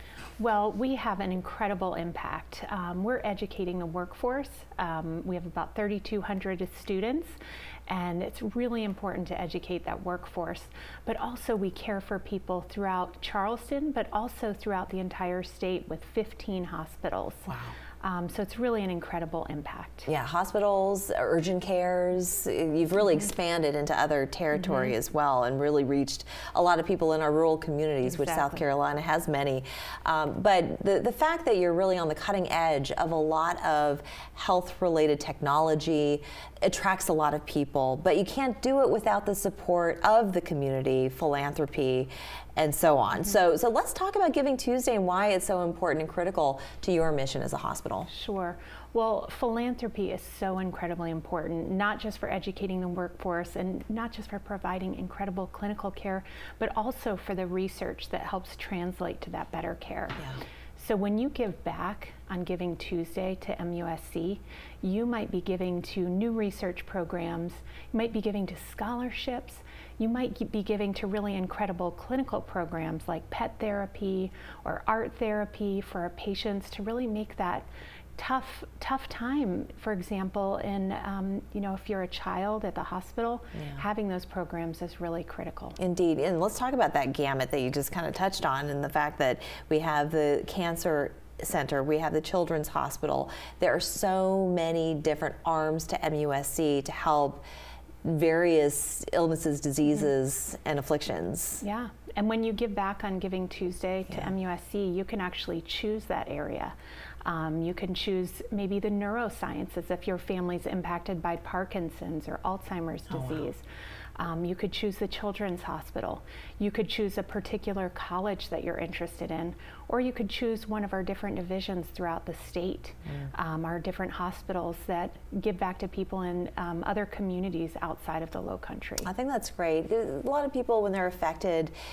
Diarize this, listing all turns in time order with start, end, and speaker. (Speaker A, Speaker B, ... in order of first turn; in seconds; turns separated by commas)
Speaker A: 0.4-7.3, Speaker A: 7.9-20.1, Speaker B: 17.5-17.7, Speaker B: 20.1-48.1, Speaker A: 24.6-24.9, Speaker A: 28.0-28.6, Speaker A: 48.1-85.8, Speaker B: 85.8-97.4, Speaker B: 98.0-101.6, Speaker A: 101.6-113.6, Speaker A: 114.2-129.1, Speaker B: 129.0-131.7